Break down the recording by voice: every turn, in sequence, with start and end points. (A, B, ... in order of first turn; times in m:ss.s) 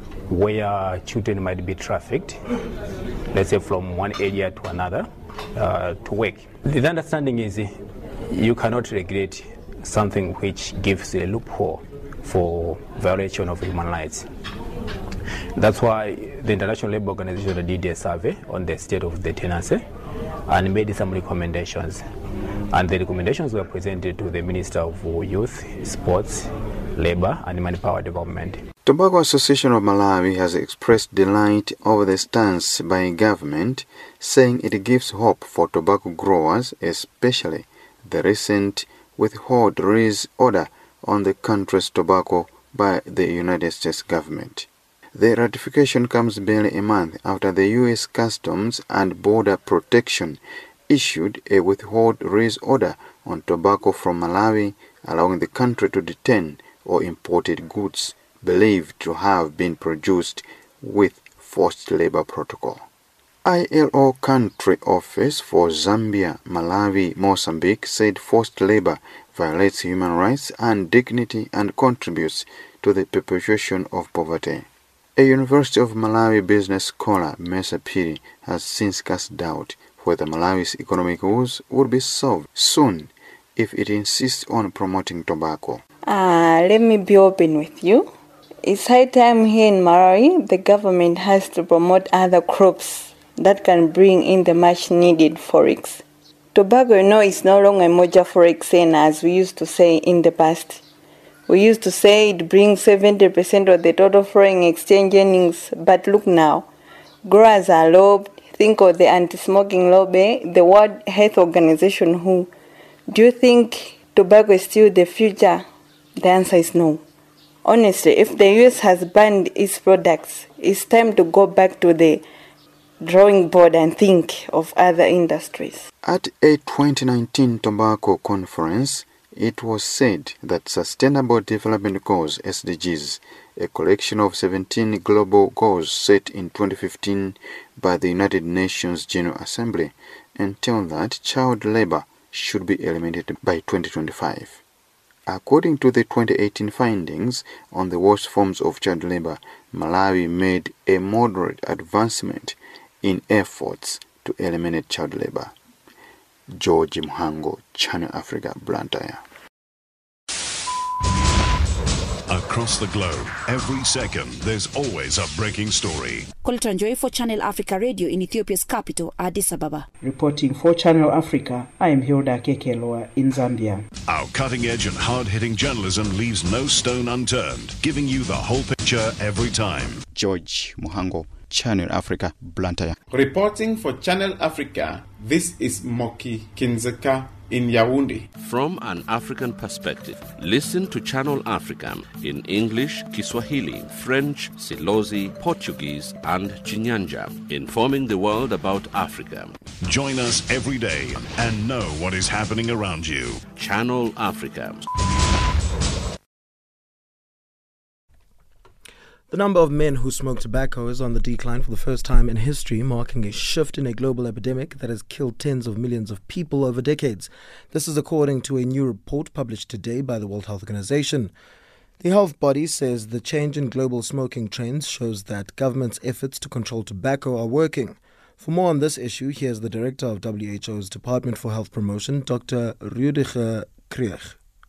0:00.3-0:02.4 A
0:03.3-0:07.7 A
0:08.3-0:14.3 A
0:15.6-0:19.8 A
0:20.5-0:22.0 A
0:22.7-0:28.6 A
0:28.8-1:02.8 B
1:03.4-1:25.8 B
1:26.0-1:28.1 C
1:28.6-1:36.0 C
1:36.5-1:40.8 C
1:41.5-1:46.7 C
1:47.2-1:52.5 C
1:53.1-1:55.6 C
1:56.2-1:57.0 C
1:57.6-2:02.2 C
2:03.0-2:05.9 C
2:06.0-2:24.6 B
2:25.3-2:35.5 B
2:36.5-2:39.2 B
2:42.3-2:46.3 D
2:46.4-2:49.9 E
2:50.1-2:53.7 F
2:54.1-3:00.0 D
3:00.1-3:03.0 G
3:03.1-3:08.3 H
3:08.4-3:19.6 I
3:19.8-3:23.4 D
3:23.5-3:24.8 I
3:29.3-3:41.3 J
3:42.0-3:54.4 J